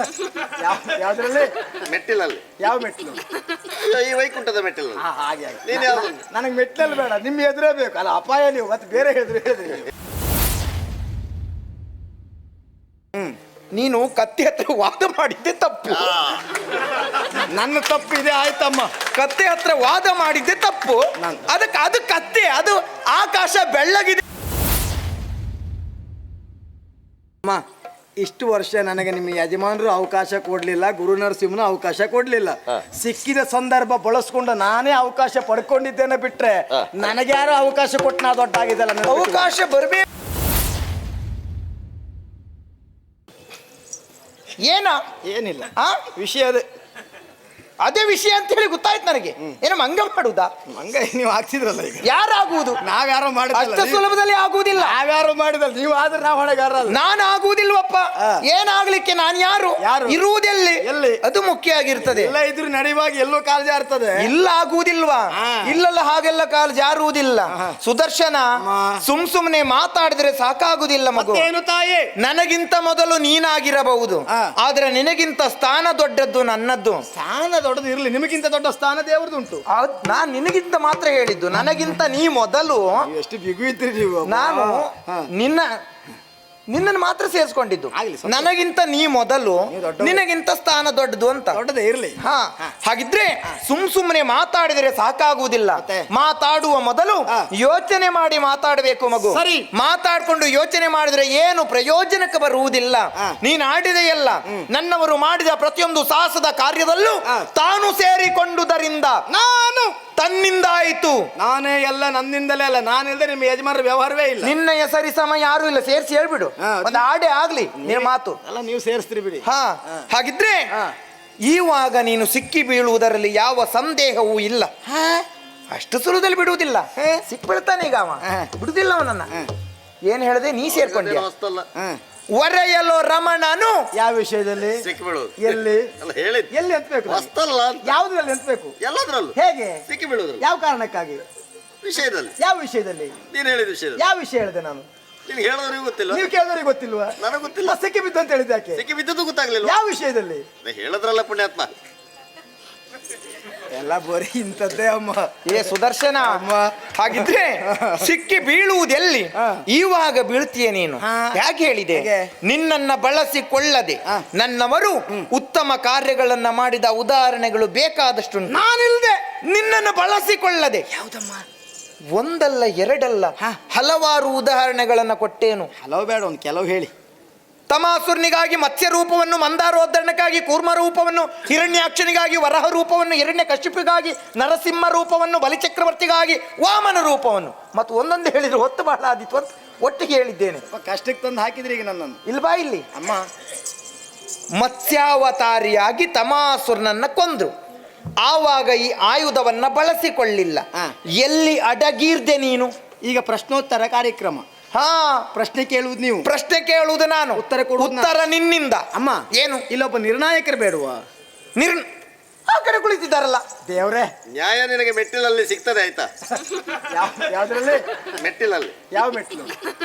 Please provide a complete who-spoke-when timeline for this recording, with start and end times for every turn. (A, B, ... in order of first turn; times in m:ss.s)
0:00.2-0:01.7 A
0:01.8-0:02.5 B
0:02.6-0:03.3 A
0:03.7-0:05.0 B
0:05.0-0:09.9 A
0:05.6-0:06.2 B
0:13.7-0:16.2 C
0:16.0-0:16.3 B
0:17.5-0:18.9 A
0:19.1-0:24.2 C
0:21.2-0:21.4 A
0:28.2-0:39.6 A
0:39.0-0:40.1 C
0:44.6-0:45.0 C
0:45.2-0:46.6 A
0:45.8-0:46.1 C
0:47.8-0:50.5 C
0:50.7-0:52.1 A
0:52.0-0:52.8 C
0:52.8-0:54.0 A
0:53.5-0:55.0 C
0:54.8-0:57.0 A
0:56.8-1:02.3 C
0:58.2-0:58.4 A
0:59.8-1:00.2 A
1:00.8-1:01.2 A
1:02.0-1:04.3 A
1:04.2-1:11.5 C
1:05.3-1:05.8 A
1:07.5-1:07.8 A
1:08.6-1:09.0 A
1:11.1-1:12.1 A
1:12.2-1:17.0 C
1:17.1-1:19.6 A
1:19.7-1:23.1 C
1:23.0-1:25.3 A
1:24.2-1:25.8 C
1:26.7-1:31.6 C
1:27.9-1:28.5 A
1:29.7-1:30.2 A
1:31.5-1:32.7 A
1:32.2-1:49.2 C
1:35.8-1:36.1 A
1:39.3-1:39.7 A
1:49.3-1:50.0 A
1:50.2-1:51.3 C
1:51.4-1:54.5 A
1:54.4-1:58.4 C
1:56.6-1:57.0 A
1:57.8-2:00.0 A
1:59.4-2:00.7 C
2:01.5-2:04.7 C
2:04.8-2:05.2 A
2:05.7-2:09.3 C
2:07.0-2:07.2 A
2:08.2-2:08.5 A
2:10.0-2:11.3 C
2:10.7-2:11.7 B
2:11.7-2:12.0 A
2:12.3-2:13.9 C
2:13.9-2:14.8 A
2:14.8-2:16.5 B
2:15.4-2:15.9 A
2:16.5-2:17.3 A
2:17.1-2:17.9 B
2:17.8-2:18.8 A
2:18.8-2:19.4 B
2:19.3-2:19.8 A
2:19.9-2:20.4 B
2:20.4-2:21.2 A
2:21.8-2:22.3 B
2:22.4-2:23.2 A
2:23.3-2:24.0 B
2:24.0-2:24.9 A
2:25.3-2:26.3 B
2:26.1-2:28.8 A
2:27.2-2:27.8 B
2:28.8-2:29.8 B
2:29.6-2:30.5 A
2:30.6-2:31.7 B
2:33.7-2:35.7 A
2:35.4-2:48.6 C
2:36.2-2:38.1 A
2:39.4-2:39.6 A
2:41.0-2:41.4 A
2:41.9-2:42.3 A
2:48.5-2:49.2 A
2:49.4-2:50.8 C
2:50.9-2:51.4 A
2:52.1-2:55.7 C
2:55.8-2:56.9 A
2:57.7-3:10.6 C
3:10.7-3:12.2 A
3:12.2-3:12.8 C
3:12.9-3:13.3 A
3:14.6-3:17.5 C
3:18.2-3:22.7 C
3:23.0-3:24.5 A
3:24.7-3:25.3 C
3:25.3-3:26.3 A
3:26.2-3:29.6 C
3:27.4-3:28.1 A
3:28.9-3:31.0 A
3:31.6-3:31.9 C
3:32.5-3:33.4 C
3:33.6-3:34.1 A
3:34.3-3:36.1 B
3:36.4-3:37.9 A
3:38.1-3:38.8 B
3:38.9-3:39.6 A